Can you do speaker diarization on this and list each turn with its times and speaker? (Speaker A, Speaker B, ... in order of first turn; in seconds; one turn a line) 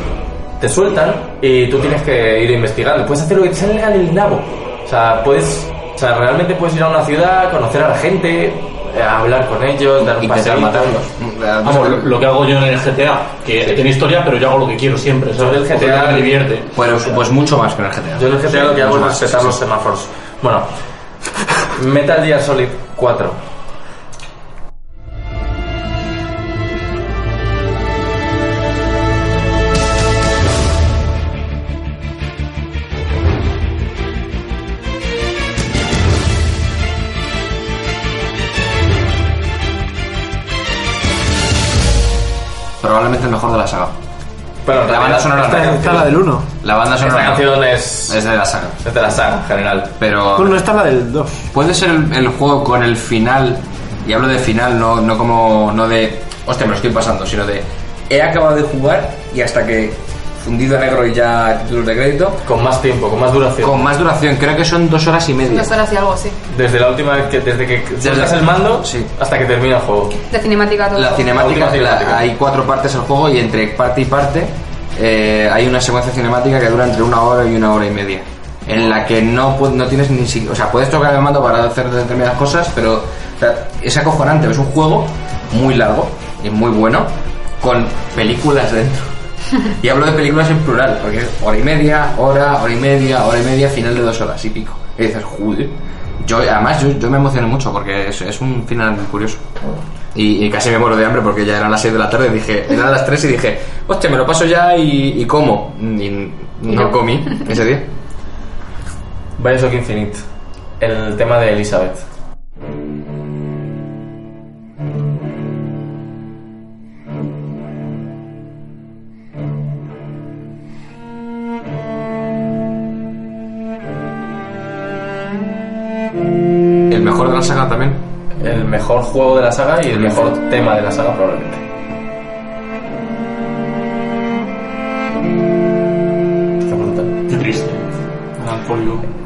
Speaker A: 0.6-11.1
Speaker B: 10.0-12.1
Speaker C: 11.6-17.1
Speaker A: 15.4-16.4
Speaker B: 16.7-19.6
Speaker A: 18.1-20.7
Speaker A: 21.7-23.4
Speaker B: 42.8-44.0
Speaker A: 44.6-46.0
Speaker B: 44.8-48.8
Speaker D: 45.4-46.5
Speaker A: 47.0-48.2
Speaker A: 48.8-49.9
Speaker B: 50.0-50.6
Speaker D: 50.3-51.5
Speaker B: 51.5-62.4
Speaker A: 62.4-63.9
Speaker B: 63.6-65.8
Speaker E: 65.5-66.4
Speaker A: 66.5-70.2
Speaker B: 68.0-69.1
Speaker E: 70.3-71.3
Speaker B: 70.9-99.4
Speaker A: 71.3-72.2
Speaker B: 100.1-107.9
Speaker A: 109.4-110.2
Speaker A: 110.8-112.0
Speaker B: 126.9-128.0
Speaker A: 128.4-131.6
Speaker A: 136.6-137.1
Speaker C: 137.3-139.1